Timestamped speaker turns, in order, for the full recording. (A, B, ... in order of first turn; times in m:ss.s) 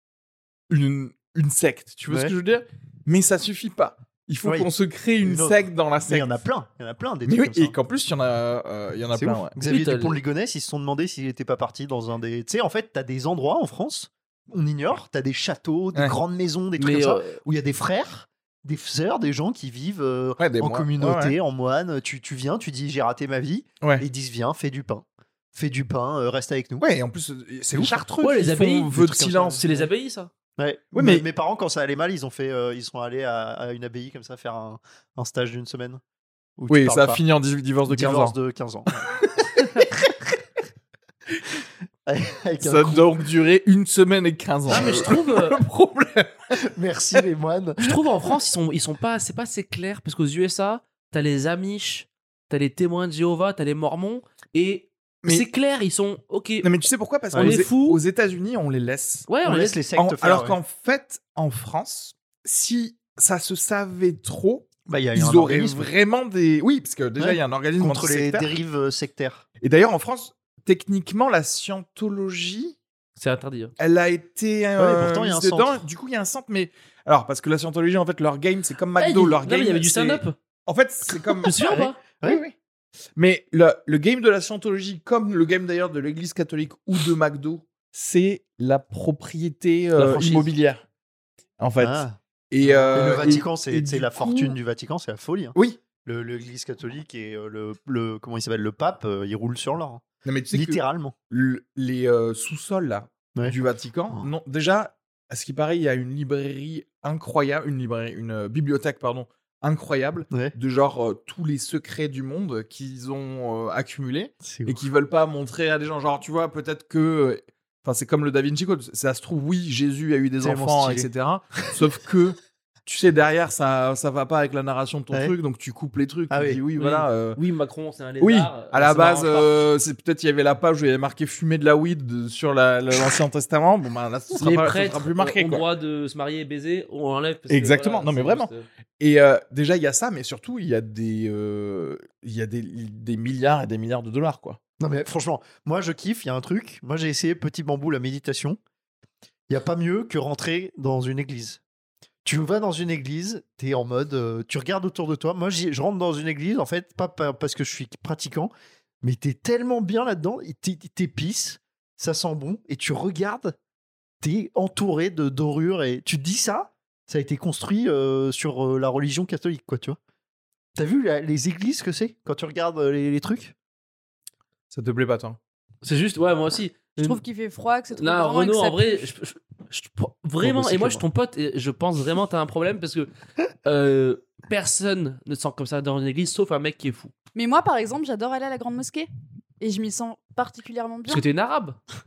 0:00.7-0:06.3 A
0:04.4-0:04.7 B
0:05.2-0:07.8 B
0:07.2-0:09.5 A
0:09.1-0:26.8 B
0:09.7-0:10.2 C
0:16.8-0:17.4 C
0:20.4-0:21.4 A
0:26.8-0:29.6 A
0:27.7-0:28.0 B
0:28.2-0:28.9 C
0:28.9-0:29.9 B
0:29.6-0:30.3 C
0:30.6-0:36.0 B
0:30.9-0:31.2 A
0:36.6-0:37.2 B
0:36.7-0:38.4 A
0:37.9-0:38.9 B
0:42.0-0:43.1 B
0:42.6-0:46.3 A
0:44.7-0:45.6 C
0:44.7-0:45.0 B
0:46.5-0:48.0 B
0:47.8-0:56.7 C
0:56.6-0:59.3 A
0:57.3-0:57.6 B
0:57.3-0:58.0 C
0:59.3-0:59.8 C
0:59.4-1:00.6 B
1:00.0-1:08.5 A
1:04.8-1:05.9 B
1:07.2-1:09.4 B
1:09.6-1:12.8 A
1:13.2-1:13.7 C
1:13.8-1:21.7 A
1:14.8-1:15.8 B
1:19.0-1:20.4 C
1:21.4-1:22.0 C
1:21.6-1:22.4 B
1:22.2-1:22.5 A
1:23.2-1:30.8 A
1:30.0-1:30.4 C
1:31.6-1:34.5 A
1:31.8-1:41.1 B
1:40.2-2:07.4 A
1:54.4-1:54.8 B
2:00.4-2:01.1 B
2:05.1-2:05.4 B
2:06.3-2:06.6 B
2:06.8-2:09.5 C
2:08.2-2:15.6 A
2:14.4-2:18.6 C
2:17.5-2:24.6 A
2:24.8-2:28.6 B
2:29.5-2:31.6 B
2:32.2-2:43.5 B
2:44.2-2:50.0 B
2:50.7-2:53.5 B
2:54.7-2:55.4 A
2:55.8-2:57.2 C
2:57.0-2:59.0 D
2:57.9-3:03.1 C
3:00.4-3:01.0 B
3:03.6-3:07.1 C
3:07.3-3:09.1 D
3:09.6-3:11.2 D
3:11.1-3:11.8 C